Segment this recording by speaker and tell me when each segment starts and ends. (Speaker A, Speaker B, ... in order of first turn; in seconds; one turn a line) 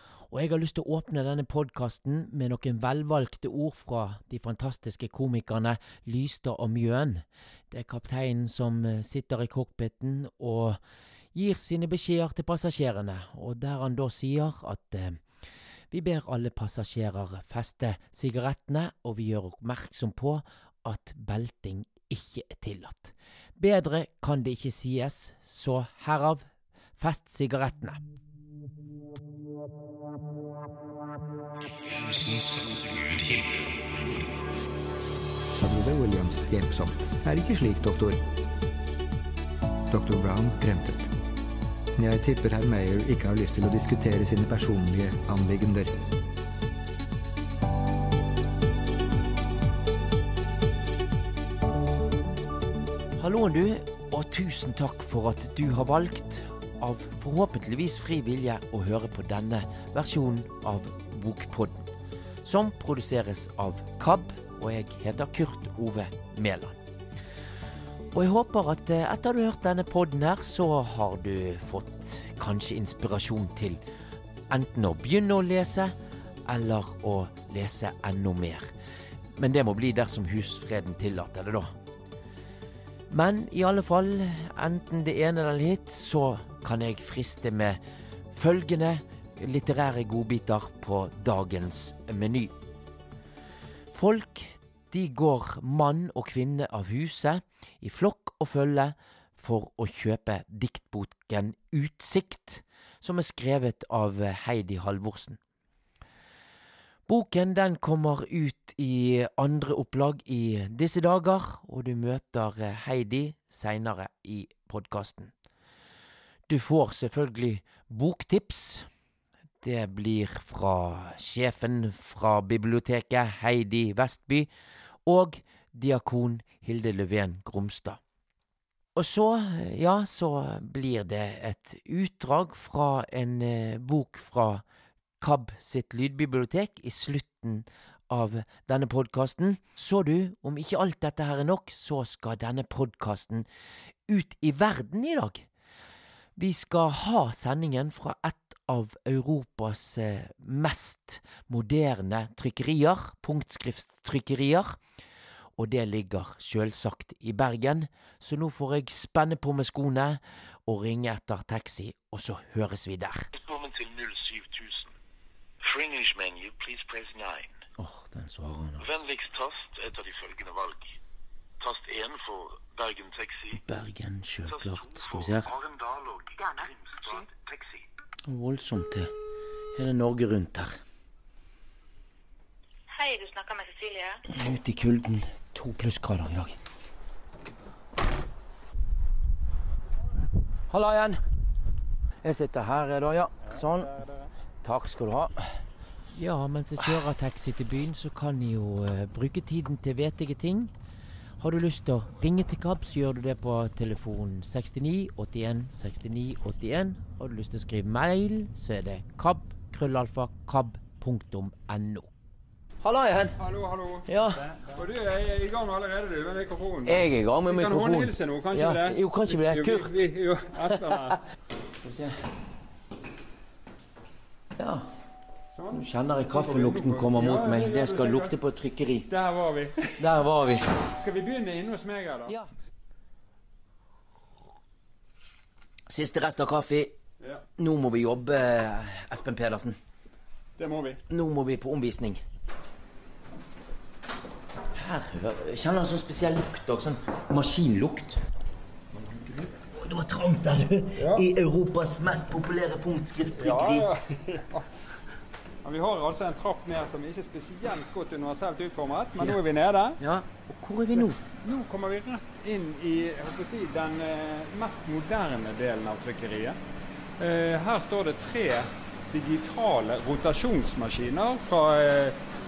Speaker A: 0.3-10.8
Speaker A: 11.3-15.2
Speaker A: 15.9-28.0
Speaker B: 32.3-32.6
Speaker B: 35.6-38.2
Speaker B: 39.9-41.1
Speaker B: 42.0-45.9
Speaker A: 53.2-61.9
Speaker A: 62.4-66.8
Speaker A: 68.1-73.8
Speaker A: 74.5-75.9
Speaker A: 76.5-78.7
Speaker A: 79.4-81.7
Speaker A: 83.1-87.8
Speaker A: 88.3-92.5
Speaker A: 93.9-105.4
Speaker A: 107.1-115.3
Speaker A: 116.5-118.9
Speaker A: 119.6-124.5
Speaker A: 125.1-128.0
Speaker A: 129.0-134.6
Speaker A: 135.2-143.5
Speaker A: 144.1-145.5
Speaker A: 146.4-154.8
Speaker A: 155.6-163.3
Speaker C: 163.3-164.9
Speaker C: 165.6-167.6
Speaker A: 167.8-168.9
Speaker C: 168.8-171.0
Speaker C: 171.6-173.6
Speaker A: 173.5-175.5
Speaker C: 174.5-177.8
Speaker D: 176.4-177.3
Speaker A: 178.3-179.1
Speaker A: 179.8-180.8
Speaker D: 182.9-184.2
Speaker A: 184.3-186.6
Speaker A: 190.7-191.2
Speaker A: 192.2-193.9
Speaker A: 194.6-195.4
Speaker A: 196.1-200.7
Speaker A: 201.4-212.1
Speaker A: 212.8-213.4
Speaker E: 213.4-221.2
Speaker A: 214.1-214.4
Speaker A: 216.8-220.1
Speaker A: 220.7-221.1
Speaker A: 221.8-222.2
Speaker A: 224.6-224.9
Speaker E: 225.5-228.4
Speaker A: 225.7-229.1
Speaker E: 229.1-230.0
Speaker A: 230.0-230.6
Speaker E: 231.0-232.4
Speaker A: 235.9-236.9
Speaker A: 237.6-239.8
Speaker E: 240.6-241.0
Speaker A: 241.1-242.2
Speaker A: 244.7-248.2
Speaker E: 248.9-249.5
Speaker A: 249.7-253.9
Speaker E: 251.0-251.2
Speaker E: 253.4-254.7
Speaker E: 255.6-260.0
Speaker A: 260.0-261.2
Speaker E: 261.0-266.6
Speaker E: 267.2-272.2